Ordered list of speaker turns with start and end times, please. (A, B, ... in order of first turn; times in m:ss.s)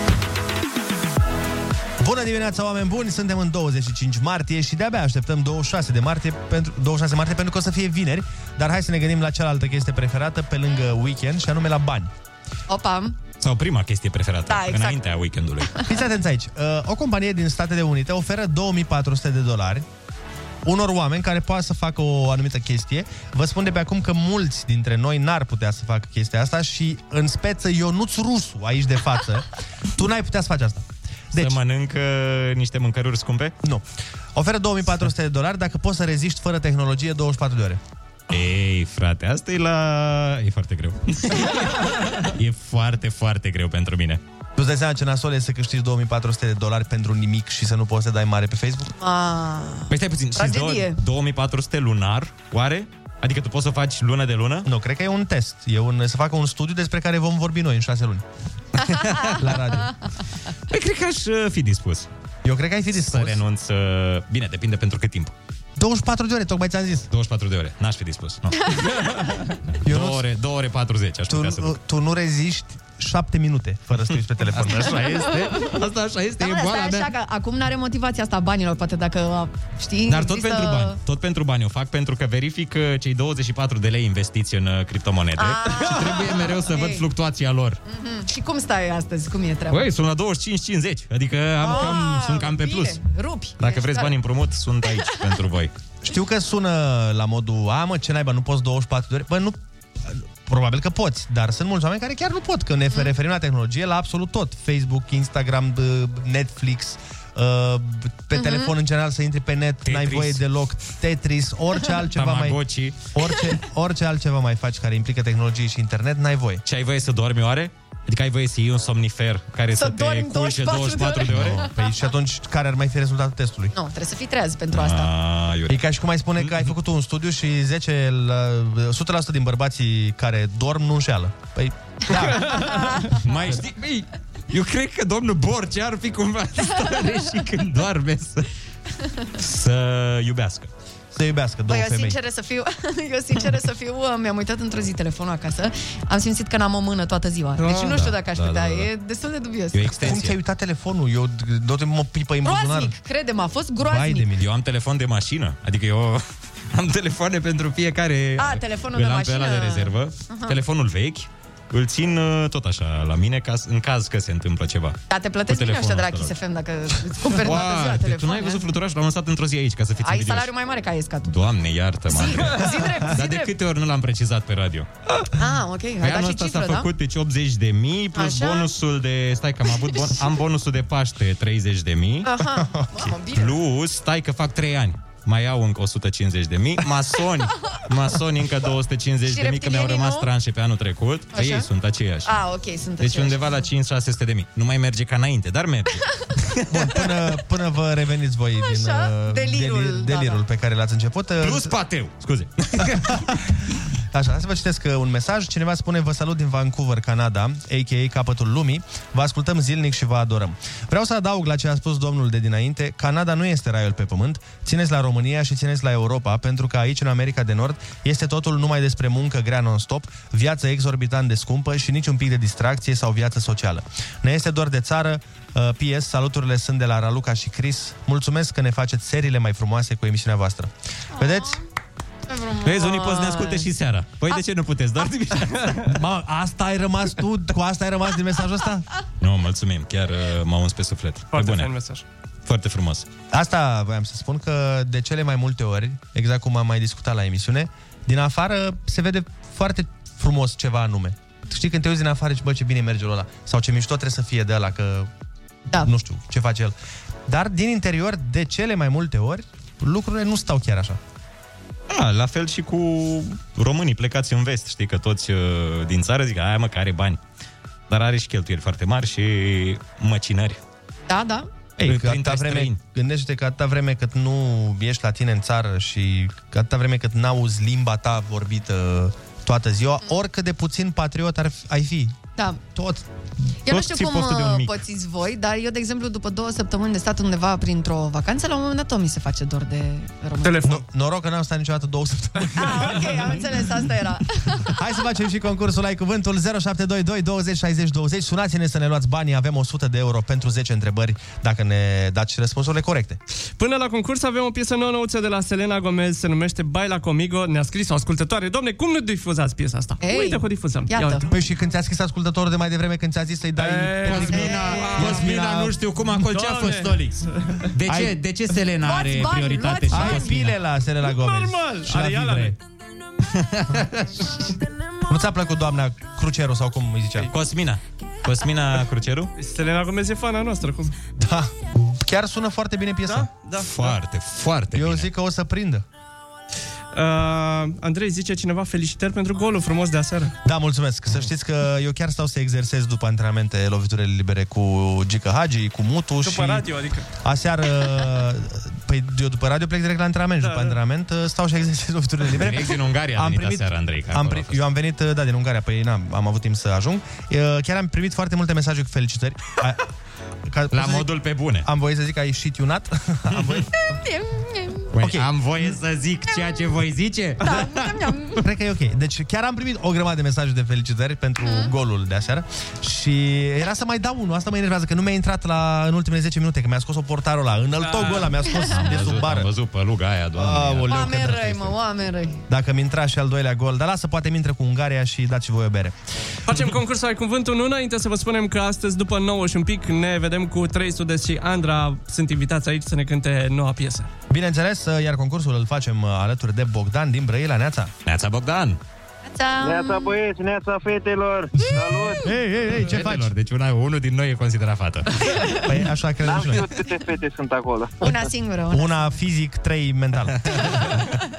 0:02.0-0:12.1 A
0:12.7-0:13.2 B
0:13.4-0:15.8 C
0:14.5-0:15.0 B
0:15.9-0:19.9 A
0:20.6-0:31.6 A
0:31.4-0:33.5 C
0:33.6-0:37.8 A
0:38.3-0:41.7 C
0:42.2-0:44.2 C
0:44.6-0:48.9 A
0:49.0-0:51.0 B
0:49.9-0:54.7 C
0:54.7-0:58.2 A
0:58.9-0:59.3 C
0:59.3-0:59.9 A
1:00.7-1:02.1 C
1:02.4-1:03.4 A
1:03.0-1:05.3 C
1:05.8-1:07.1 A
1:07.1-1:11.8 C
1:08.6-1:09.0 B
1:09.8-1:10.2 A
1:11.3-1:15.2 A
1:14.5-1:17.1 C
1:16.4-1:21.0 B
1:20.1-1:27.8 C
1:25.4-1:27.0 B
1:27.9-1:29.9 B
1:29.7-1:33.0 C
1:31.6-1:34.1 B
1:33.6-1:35.7 C
1:36.0-1:52.6 A
1:48.3-1:48.7 B
1:49.8-1:50.4 C
1:52.1-1:53.0 C
1:53.1-1:56.6 A
1:56.7-2:01.7 C
1:59.8-2:01.7 B
2:01.3-2:03.7 A
2:03.7-2:05.1 B
2:04.7-2:05.8 C
2:05.7-2:12.6 A
2:06.4-2:06.7 C
2:12.1-2:13.2 B
2:13.2-2:18.5 C
2:19.3-2:20.7 C
2:21.1-2:22.2 A
2:21.7-2:30.2 B
2:27.6-2:28.0 D
2:27.9-2:28.9 C
2:29.7-2:30.4 C
2:30.0-2:32.9 A
2:32.4-2:34.3 B
2:33.8-2:34.5 A
2:34.4-2:46.3 C
2:38.4-2:40.6 B
2:45.1-2:48.6 B
2:47.3-2:50.5 C
2:50.0-2:51.3 B
2:51.2-2:54.9 C
2:52.1-2:53.5 B
2:55.4-2:56.9 B
2:56.0-3:02.3 C
2:58.1-2:58.7 B
3:02.2-3:03.6 B
3:02.7-3:03.0 A
3:03.3-3:12.3 C
3:09.2-3:10.3 B
3:11.3-3:11.7 B
3:12.2-3:13.6 B
3:13.0-3:17.1 C
3:16.7-3:21.7 A
3:18.6-3:20.4 B
3:21.4-3:23.4 C
3:22.8-3:23.3 A
3:24.1-3:51.6 A
3:51.2-3:51.6 B
3:52.3-3:53.7 B
3:52.6-3:55.9 C
3:55.8-3:58.9 A
3:59.2-4:01.7 C
4:01.3-4:02.0 D
4:02.4-4:03.1 C
4:03.3-4:15.1 A
4:15.8-4:16.8 A
4:17.3-4:21.0 A
4:21.9-4:27.2 C
4:27.9-4:30.6 C
4:31.1-4:31.5 B
4:31.8-4:42.2 A
4:31.8-4:32.8 C
4:42.7-4:43.0 A
4:43.7-4:50.7 B
4:43.7-4:44.8 C
4:50.4-4:50.8 D
4:50.6-4:53.1 A
4:52.5-4:54.7 B
4:54.7-5:03.2 A
5:03.6-5:11.3 D
5:10.0-5:11.2 B
5:11.2-5:15.8 A
5:13.6-5:15.3 D
5:14.0-5:20.6 C
5:14.3-5:15.0 B
5:16.2-5:17.7 D
5:17.9-5:18.2 A
5:18.8-5:20.4 B
5:19.9-5:22.6 A
5:21.1-5:22.5 D
5:23.4-5:24.1 C
5:25.1-5:27.3 A
5:27.3-5:29.3 C
5:29.4-5:30.9 D
5:31.2-5:33.3 A
5:33.1-5:34.0 D
5:33.6-5:35.1 C
5:34.7-5:35.8 A
5:36.9-5:40.3 D
5:40.4-5:46.7 A
5:46.2-5:47.1 D
5:47.2-5:59.8 A
5:50.4-5:50.8 D
5:52.3-5:54.6 C
6:00.5-6:01.1 A
6:00.7-6:01.7 C
6:01.6-6:03.7 A
6:03.3-6:03.7 C
6:04.0-6:04.9 B
6:04.9-6:08.4 C
6:05.0-6:05.3 A
6:07.4-6:08.4 B
6:08.4-6:19.5 A
6:11.4-6:11.7 B
6:17.8-6:18.3 D
6:18.2-6:18.9 B
6:18.7-6:21.3 C
6:20.4-6:21.7 A
6:20.9-6:22.4 B
6:22.5-6:26.0 A
6:26.5-6:34.1 D
6:34.3-6:37.9 A
6:38.1-6:38.8 C
6:39.3-6:40.1 B
6:39.6-6:42.3 E
6:42.2-6:43.3 A
6:42.9-6:45.2 C
6:45.3-6:45.6 B
6:45.6-6:46.7 A
6:46.2-6:48.2 E
6:48.0-6:49.1 B
6:48.7-6:50.9 A